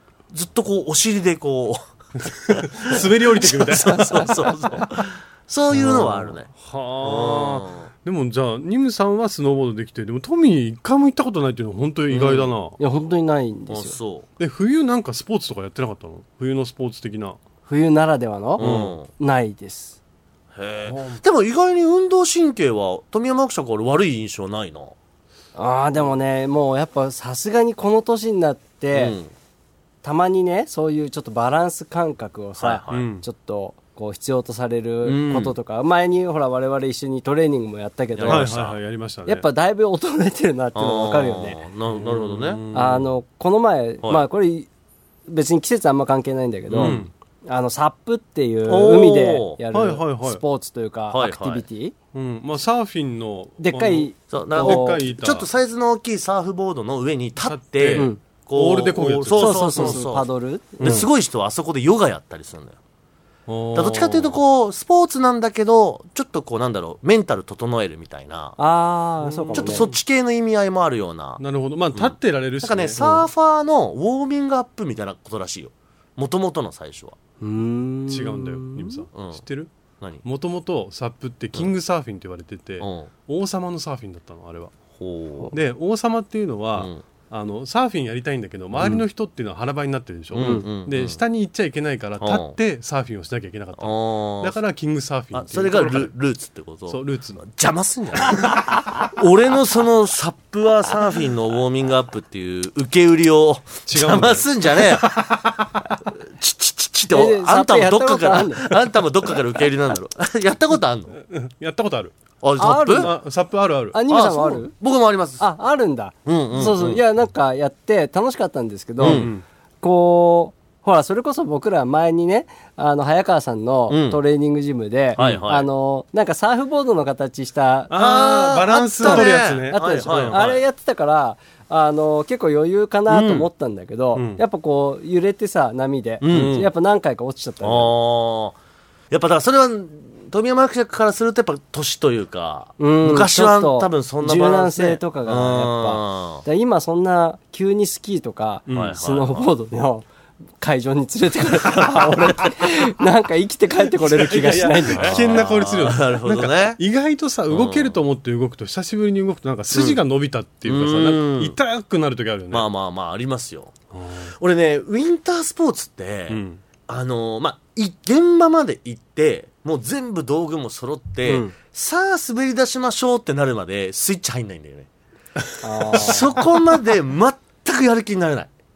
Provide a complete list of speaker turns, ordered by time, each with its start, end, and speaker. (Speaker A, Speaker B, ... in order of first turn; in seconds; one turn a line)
Speaker A: 0.3-6.5
Speaker B: 2.5-4.5
Speaker B: 5.7-12.8
Speaker A: 7.0-7.9
Speaker A: 12.1-12.5
Speaker C: 12.8-13.9
Speaker A: 13.7-14.2
Speaker B: 14.4-17.4
Speaker C: 17.7-19.9
Speaker A: 18.6-19.1
Speaker B: 18.6-18.9
Speaker A: 20.5-24.9
Speaker C: 25.5-29.1
Speaker A: 28.9-29.3
Speaker C: 30.0-38.5
Speaker A: 32.6-33.1
Speaker B: 32.9-33.2
Speaker A: 35.0-35.5
Speaker A: 38.1-38.8
Speaker B: 38.3-39.5
Speaker C: 39.2-41.6
Speaker A: 40.7-42.6
Speaker B: 41.9-43.1
Speaker C: 42.7-44.7
Speaker C: 45.3-51.9
Speaker A: 46.7-47.0
Speaker B: 46.8-47.1
Speaker A: 48.7-49.6
Speaker B: 49.7-50.4
Speaker A: 51.1-51.6
Speaker B: 52.1-55.5
Speaker C: 53.6-55.0
Speaker A: 54.3-60.3
Speaker B: 57.4-60.0
Speaker C: 57.9-58.2
Speaker C: 59.3-61.1
Speaker A: 60.8-62.8
Speaker B: 60.8-61.1
Speaker B: 63.5-64.4
Speaker A: 63.7-68.5
Speaker C: 68.6-69.9
Speaker B: 69.2-70.0
Speaker A: 69.5-71.4
Speaker B: 71.4-73.0
Speaker A: 71.9-77.2
Speaker C: 73.0-73.3
Speaker C: 77.4-79.0
Speaker B: 78.1-79.7
Speaker A: 79.1-79.4
Speaker B: 80.2-84.7
Speaker A: 82.8-83.1
Speaker A: 85.0-85.5
Speaker B: 85.5-96.1
Speaker A: 86.7-87.0
Speaker A: 90.3-91.2
Speaker C: 90.4-90.7
Speaker A: 92.2-92.5
Speaker A: 93.8-94.5
Speaker A: 95.3-105.2
Speaker B: 96.9-97.4
Speaker B: 103.9-105.6
Speaker A: 106.2-111.2
Speaker C: 107.1-108.7
Speaker B: 111.2-112.1
Speaker A: 112.4-113.1
Speaker C: 112.6-113.2
Speaker B: 112.9-114.0
Speaker C: 113.9-114.7
Speaker A: 114.1-115.4
Speaker C: 115.4-119.3
Speaker A: 116.2-117.0
Speaker B: 119.0-119.4
Speaker A: 119.0-119.3
Speaker C: 119.8-128.0
Speaker A: 123.9-124.2
Speaker A: 125.2-125.7
Speaker B: 125.2-125.4
Speaker B: 127.9-130.4
Speaker A: 127.9-130.6
Speaker C: 129.0-137.9
Speaker A: 133.1-133.5
Speaker B: 134.1-134.4
Speaker A: 136.2-136.7
Speaker A: 137.6-138.6
Speaker A: 139.1-146.4
Speaker C: 142.8-150.1
Speaker B: 148.7-149.0
Speaker A: 148.7-149.5
Speaker C: 150.6-155.4
Speaker B: 154.1-162.7
Speaker A: 154.4-156.8
Speaker A: 157.5-157.9
Speaker A: 159.7-160.0
Speaker A: 160.6-161.6
Speaker A: 162.5-163.8
Speaker B: 163.9-164.3
Speaker A: 164.3-174.9
Speaker B: 166.3-166.6
Speaker C: 171.2-171.5
Speaker C: 175.6-176.3
Speaker A: 175.9-178.5